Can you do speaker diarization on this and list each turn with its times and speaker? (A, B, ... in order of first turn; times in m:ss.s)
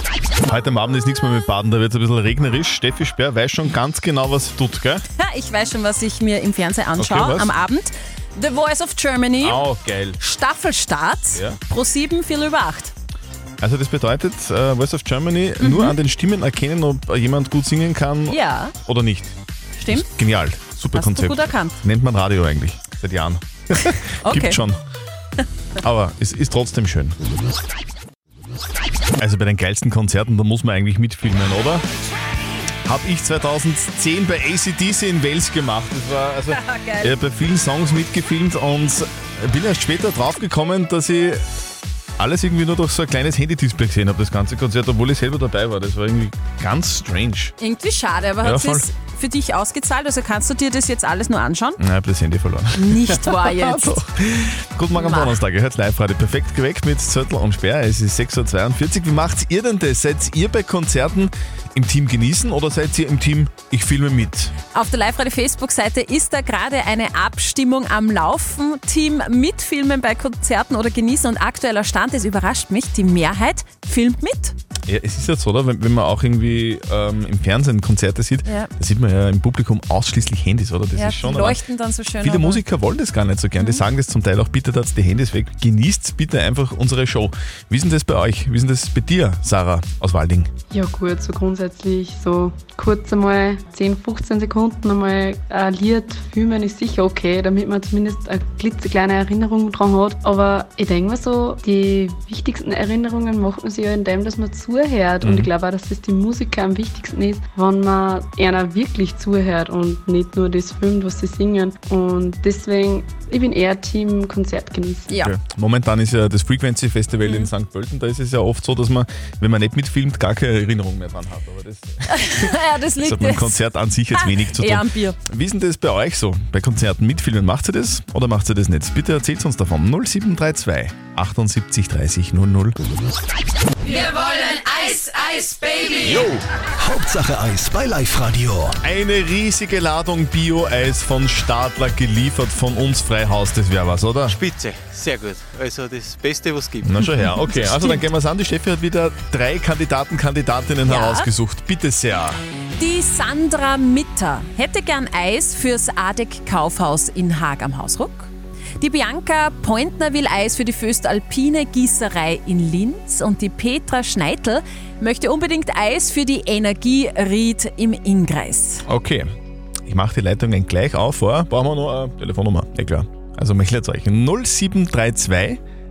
0:00.4-0:05.0 A
0:05.2-0:09.6 B
0:07.0-0:07.5 A
0:09.4-0:10.2 A
0:10.2-0:12.9 B
0:11.3-0:11.6 A
0:13.6-0:19.3 A
0:15.6-0:15.9 B
0:18.3-0:18.7 B
0:19.8-0:20.0 B
0:19.9-0:24.8 A
0:20.9-0:21.8 B
0:24.2-0:24.6 B
0:25.8-0:27.2 A
0:29.2-0:31.8 A
0:32.8-0:41.4 A
0:36.5-0:37.2 B
0:42.2-0:47.5 A
0:47.6-0:51.8 B
0:48.4-0:48.9 A
0:51.8-1:04.5 A
0:52.8-0:54.0 B
0:54.9-0:55.4 B
1:04.7-1:14.5 B
1:14.9-1:21.6 A
1:18.4-1:18.7 B
1:20.9-1:22.6 B
1:22.2-1:30.5 A
1:23.6-1:23.8 B
1:30.7-1:55.1 C
1:45.2-1:45.5 A
1:55.1-1:55.3 B
1:55.2-2:12.8 A
2:02.1-2:05.2 B
2:16.0-2:18.8 D
2:18.8-2:24.4 A
2:24.6-2:26.8 E
2:26.8-2:32.4 A
2:27.5-2:28.0 B
2:30.8-2:31.3 B
2:32.8-2:48.8 B
2:48.8-2:49.3 A
2:49.9-2:55.6 A